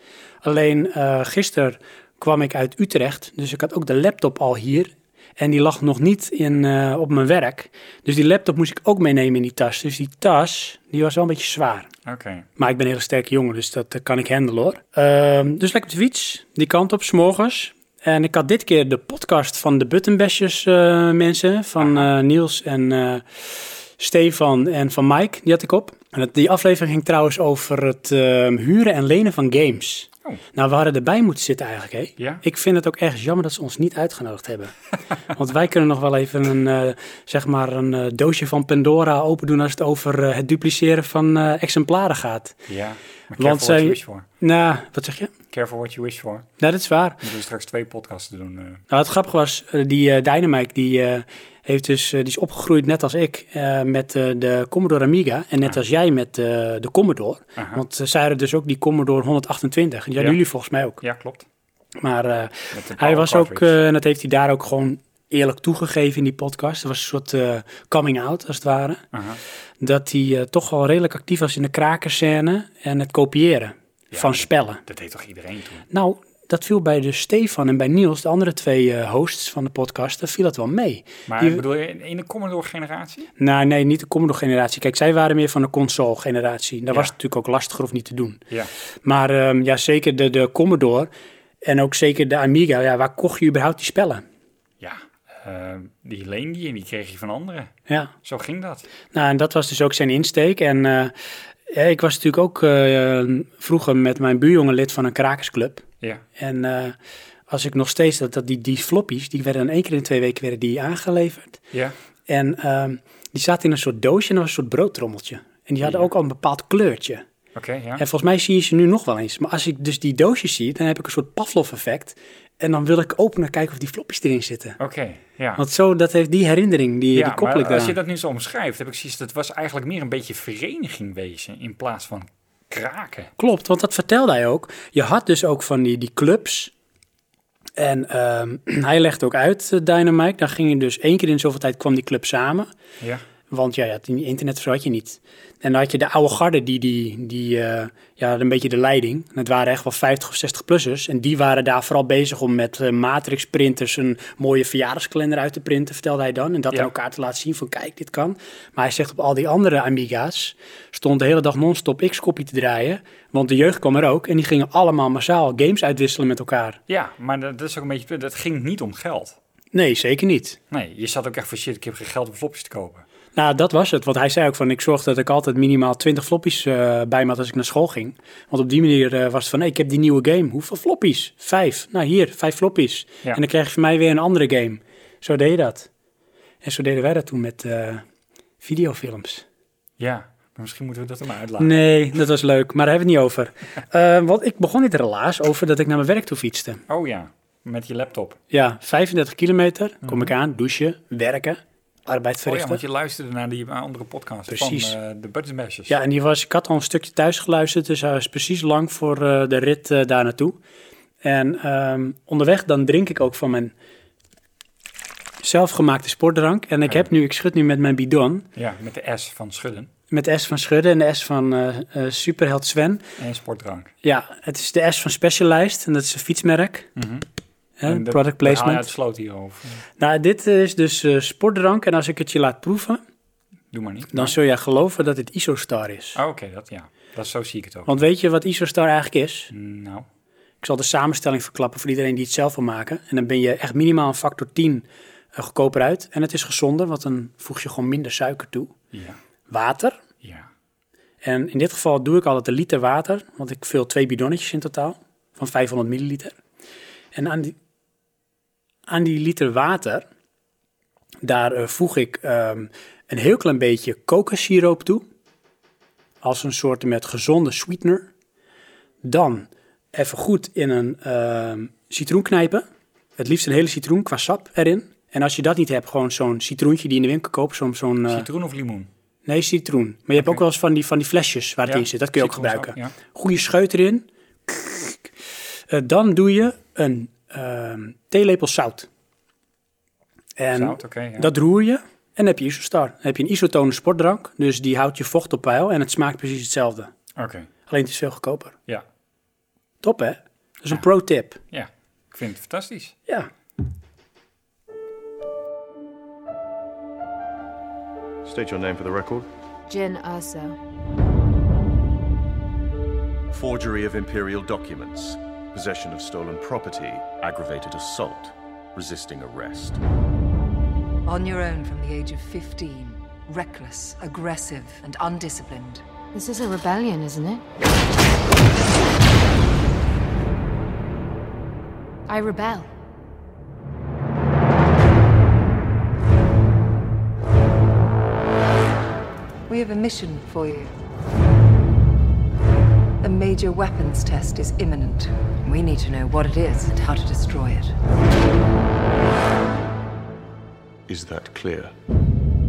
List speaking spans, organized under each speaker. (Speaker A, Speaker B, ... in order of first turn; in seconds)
Speaker A: 0.4-11.9, 12.6-34.7, 35.2-42.6, 43.4-45.3, 46.6-47.2, 48.9-61.0, 62.0-69.0, 69.8-74.8, 75.9-81.6, 83.4-88.4, 89.0-91.1, 91.6-94.2, 99.1-101.1, 101.7-105.8, 106.4-106.9, 107.5-111.6, 112.3-117.2, 118.0-124.8, 125.6-128.0, 133.4-136.7, 137.8-142.7, 143.5-166.8, 169.7-170.6, 173.3-185.9, 186.6-188.0, 188.6-189.4, 191.6-196.8, 198.5-202.8, 204.5-204.9, 205.9-210.6, 211.2-213.7, 215.4-218.5, 220.1-223.0, 224.0-226.9, 227.8-228.9, 230.0-233.0, 234.1-236.2, 237.9-239.5, 240.6-248.7, 249.5-250.0, 251.2-256.4, 257.1-257.6, 258.9-260.1, 261.2-265.0, 266.2-268.1, 269.0-272.6, 273.2-278.2, 279.2-285.1, 285.7-288.9, 290.4-296.9, 297.7-298.6, 299.8-301.4
Speaker B: 12.0-12.5, 21.8-22.1, 42.7-44.2, 45.5-46.5, 47.2-48.8, 57.6-57.8, 61.0-61.5, 62.7-63.7, 69.1-69.4, 74.1-75.9, 81.3-83.3, 94.8-98.9, 115.8-116.1, 117.5-118.0, 124.8-125.6, 127.1-133.3, 143.0-143.2, 166.9-169.4, 170.7-173.1, 190.0-191.8, 196.9-198.4, 200.0-200.3, 202.4-206.0, 218.6-219.9, 223.2-223.9, 226.9-227.2, 227.8-229.8, 233.7-234.4, 236.2-238.0, 239.5-240.1, 248.9-249.2, 250.2-250.5, 278.1-278.9, 280.1-280.4, 281.6-282.9, 290.5-291.3, 297.1-297.5, 301.5-302.9
Speaker C: 308.2-309.3, 313.3-319.8, 350.9-351.7
Speaker D: 309.7-310.6, 326.1-327.4, 332.1-332.7
Speaker E: 321.1-325.8, 339.5-340.8, 343.0-347.7